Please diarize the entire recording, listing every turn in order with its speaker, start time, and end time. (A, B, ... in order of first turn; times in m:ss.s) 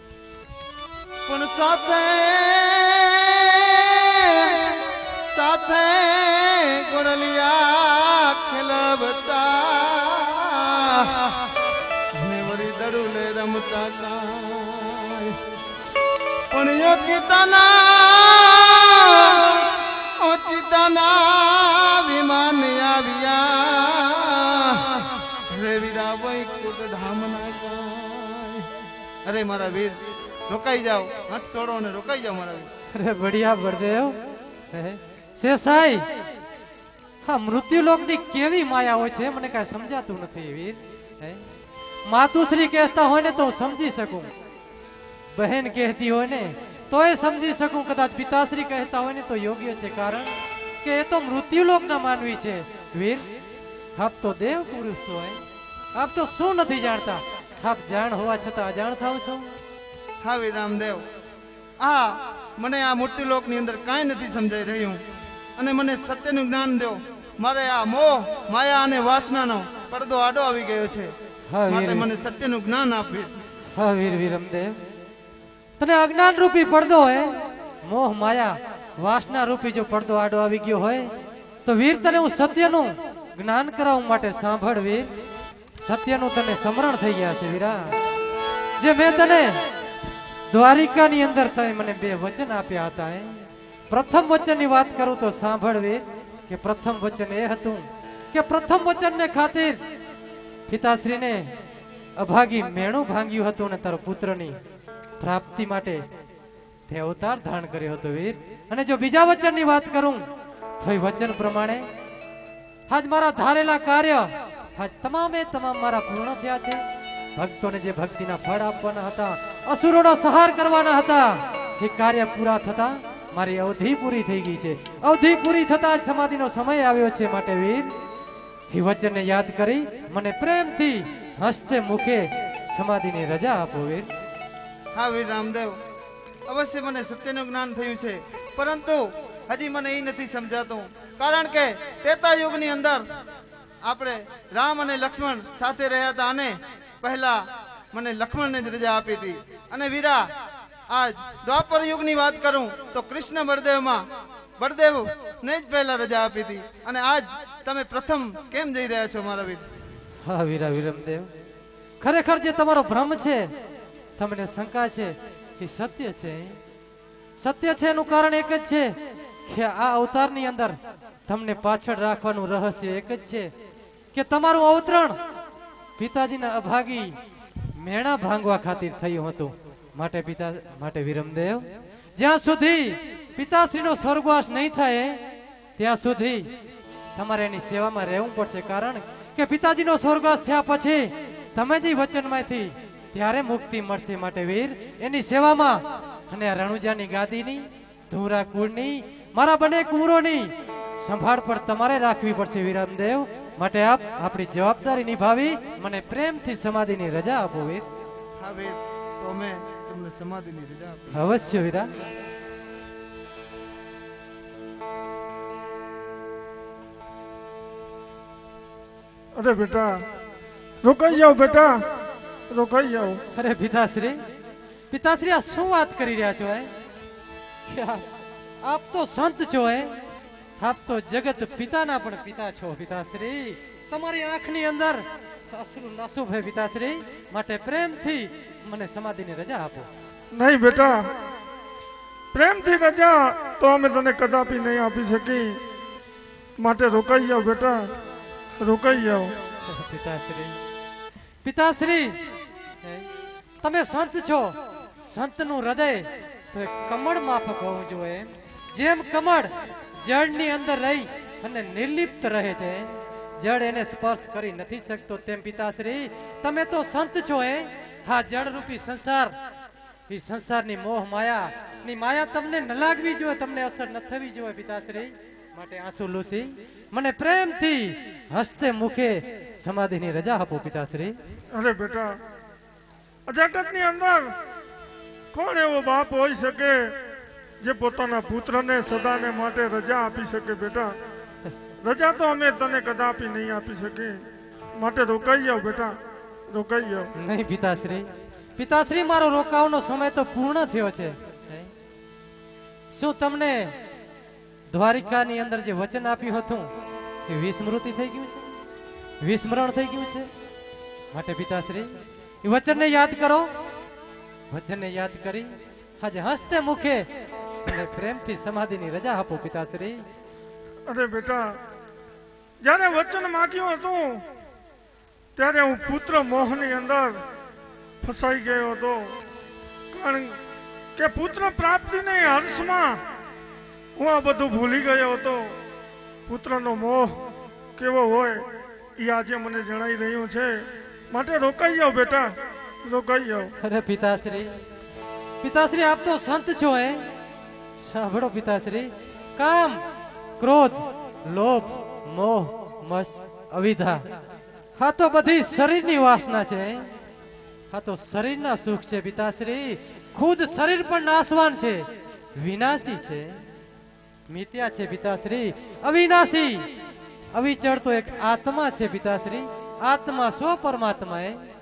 0:01.3-0:04.6 A
0:05.3-0:11.3 A
0:12.2-0:15.3 A
0:16.5-0:19.7 A
0:20.2-0:28.7 A
0:29.2-0:32.7 A
0:32.9-0:34.2 B
0:34.7-0:36.0 B
0:37.2-0:41.4 B
0:42.1-0:44.3 B
0:45.3-0:50.3 B
0:50.8-0:53.2 B
0:54.0-0:55.4 B
0:56.0-0:59.5 B
1:00.2-1:01.0 A
1:01.8-1:05.0 A
1:05.6-1:11.1 A
1:11.5-1:12.1 B
1:11.7-1:13.3 A
1:13.7-1:14.8 B
1:15.8-1:21.1 B
1:21.7-1:25.1 B
1:25.8-1:27.9 B
1:28.8-1:29.6 B
1:30.5-1:39.8 B
1:40.7-1:41.5 B
1:42.2-1:44.6 B
1:45.2-1:46.0 B
1:46.9-1:50.2 B
1:50.8-1:51.8 B
1:52.9-1:56.8 B
1:57.4-2:07.9 B
2:08.7-2:14.1 B
2:15.0-2:15.8 A
2:16.5-2:23.0 A
2:23.8-2:27.4 A
2:27.9-2:30.2 A
2:30.9-2:34.0 A
2:34.6-2:39.6 A
2:40.2-2:41.3 B
2:42.0-2:43.5 B
2:44.2-2:46.6 B
2:47.4-2:48.9 B
2:49.5-2:53.5 B
2:54.1-2:55.2 B
2:56.0-2:57.2 B
2:57.8-3:01.6 B
3:02.2-3:05.2 B
3:05.8-3:06.5 B
3:07.2-3:20.5 B
3:21.0-3:27.8 B
3:28.4-3:31.3 A
3:31.1-3:31.9 B
3:39.4-3:40.0 C
3:40.8-3:41.7 C
3:42.5-3:43.2 C
3:43.4-3:44.2 B
3:44.9-3:46.7 B
3:47.7-3:48.1 B
3:48.6-3:49.9 B
3:50.6-3:59.9 B
4:00.3-4:01.0 C
4:02.3-4:05.6 C
4:06.6-4:07.8 C
4:08.6-4:09.3 C
4:09.7-4:10.6 B
4:11.4-4:12.2 B
4:13.6-4:14.6 B
4:15.1-4:19.5 B
4:20.0-4:29.3 B
4:30.1-4:41.2 B
4:41.5-4:42.1 C
4:43.3-4:44.3 C
4:45.3-4:46.9 C
4:47.6-4:50.9 C
4:51.8-4:54.2 C
4:54.8-4:55.9 C
4:56.5-4:57.1 C
4:57.2-5:01.7 B
5:02.9-5:03.7 B
5:04.7-5:06.7 B
5:07.3-5:08.5 B
5:09.2-5:10.3 B
5:11.1-5:11.9 B
5:12.4-5:13.5 B
5:14.5-5:15.5 B
5:16.0-5:17.1 B
5:17.6-5:20.0 B
5:20.9-5:21.5 C
5:22.6-5:24.2 C
5:25.4-5:27.2 C
5:28.0-5:29.2 C
5:29.9-5:30.4 C
5:31.0-5:33.0 C
5:34.0-5:35.5 C
5:36.3-5:37.2 C
5:37.8-5:38.4 C
5:39.0-5:40.5 C
5:41.1-5:42.3 C
5:42.8-5:43.5 C
5:43.6-5:44.5 B
5:45.4-5:47.1 B
5:47.8-5:49.8 B
5:50.4-5:54.0 B
5:54.8-5:56.8 B
5:57.7-6:01.8 B
6:02.4-6:03.4 B
6:04.3-6:06.7 B
6:07.3-6:11.4 B